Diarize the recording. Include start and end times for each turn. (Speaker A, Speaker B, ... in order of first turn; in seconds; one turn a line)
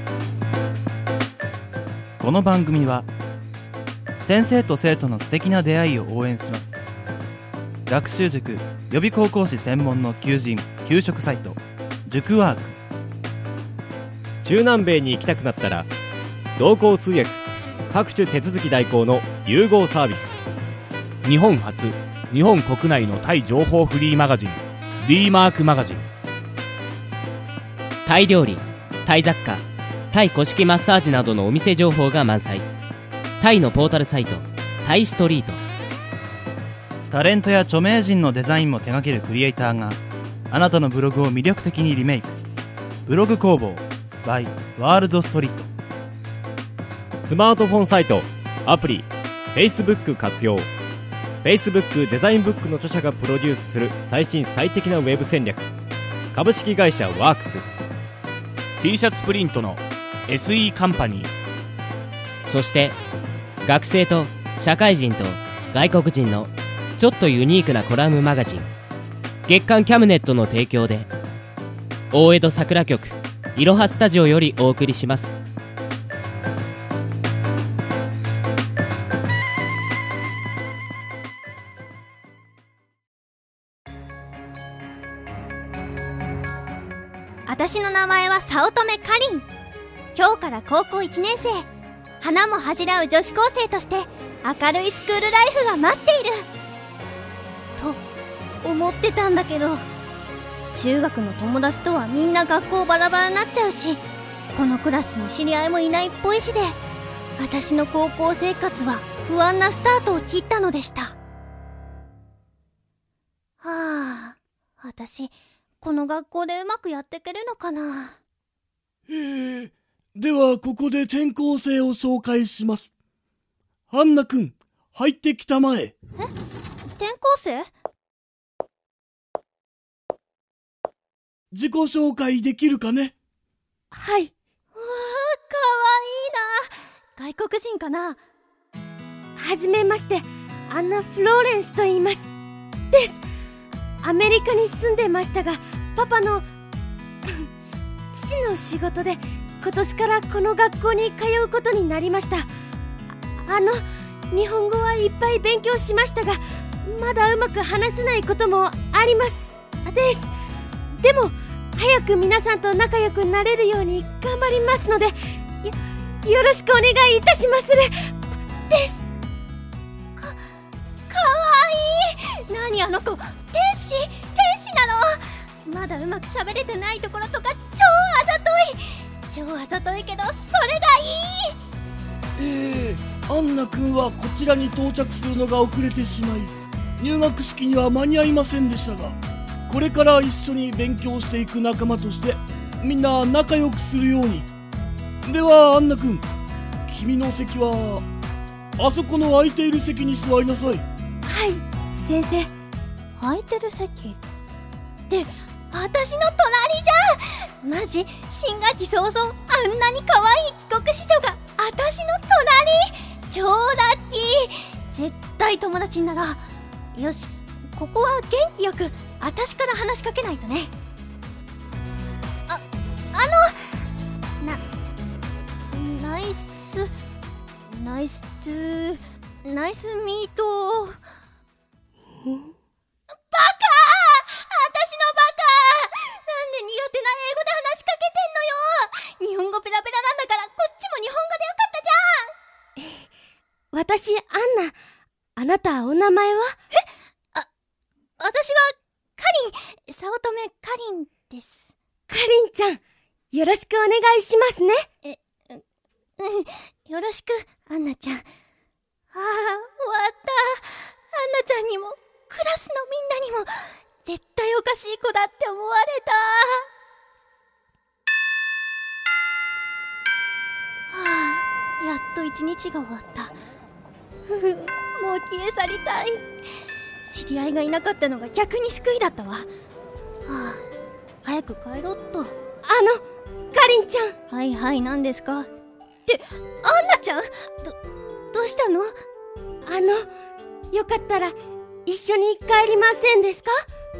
Speaker A: 2.2-3.1
Speaker A: 4.2-6.8
Speaker A: 7.9-12.8
Speaker B: 14.4-15.9
Speaker B: 16.6-20.4
Speaker C: 21.2-26.1
Speaker D: 28.0-32.7
Speaker D: 33.4-35.6
Speaker A: 37.1-42.4
Speaker A: 43.0-45.7
Speaker B: 47.2-50.7
Speaker B: 51.4-55.7
Speaker B: 56.3-57.7
Speaker C: 58.8-61.3
Speaker D: 62.4-63.0
Speaker D: 63.6-68.7
Speaker D: 69.5-71.1
Speaker D: 72.1-75.4
Speaker E: 87.5-89.5
Speaker E: 90.1-91.7
Speaker E: 92.2-96.5
Speaker E: 98.6-99.8
Speaker E: 100.7-104.0
Speaker E: 104.5-106.7
Speaker E: 107.4-111.2
Speaker E: 113.6-118.2
Speaker F: 119.1-122.9
Speaker F: 123.9-125.9
Speaker E: 126.9-127.7
Speaker F: 131.5-133.1
Speaker G: 133.9-134.3
Speaker E: 134.7-138.2
Speaker G: 139.3-142.3
Speaker G: 142.9-143.2
Speaker G: 144.0-146.4
Speaker G: 148.1-152.5
Speaker G: 153.3-160.3
Speaker G: 161.0-168.1
Speaker G: 168.7-169.0
Speaker E: 171.1-181.5
Speaker F: 182.4-189.2
Speaker F: 189.7-194.5
Speaker F: 195.2-196.2
Speaker F: 196.9-198.0
Speaker F: 198.8-200.8
Speaker G: 201.2-202.5
Speaker E: 203.2-204.2
Speaker E: 205.1-216.4
Speaker E: 216.9-220.7
Speaker E: 223.1-223.6
Speaker E: 225.7-226.9
Speaker E: 227.7-231.0
Speaker G: 232.2-232.5
Speaker E: 233.2-242.3
Speaker G: 242.8-243.0
Speaker G: 243.7-244.7
Speaker G: 245.3-246.5
Speaker E: 246.7-247.5
Speaker E: 248.2-251.7
Speaker G: 252.1-252.8
Speaker G: 253.3-254.8
Speaker E: 255.0-255.6
Speaker E: 256.2-258.2
Speaker E: 259.1-266.7
Speaker E: 270.9-273.3
Speaker E: 274.2-276.2
Speaker E: 277.1-279.5
Speaker E: 280.2-280.6
Speaker E: 281.2-282.3
Speaker G: 282.6-283.0
Speaker G: 283.5-284.1
Speaker E: 284.3-285.5
Speaker E: 286.1-287.8
Speaker E: 288.3-288.9
Speaker G: 289.6-290.1
Speaker G: 290.7-291.3
Speaker G: 291.9-293.6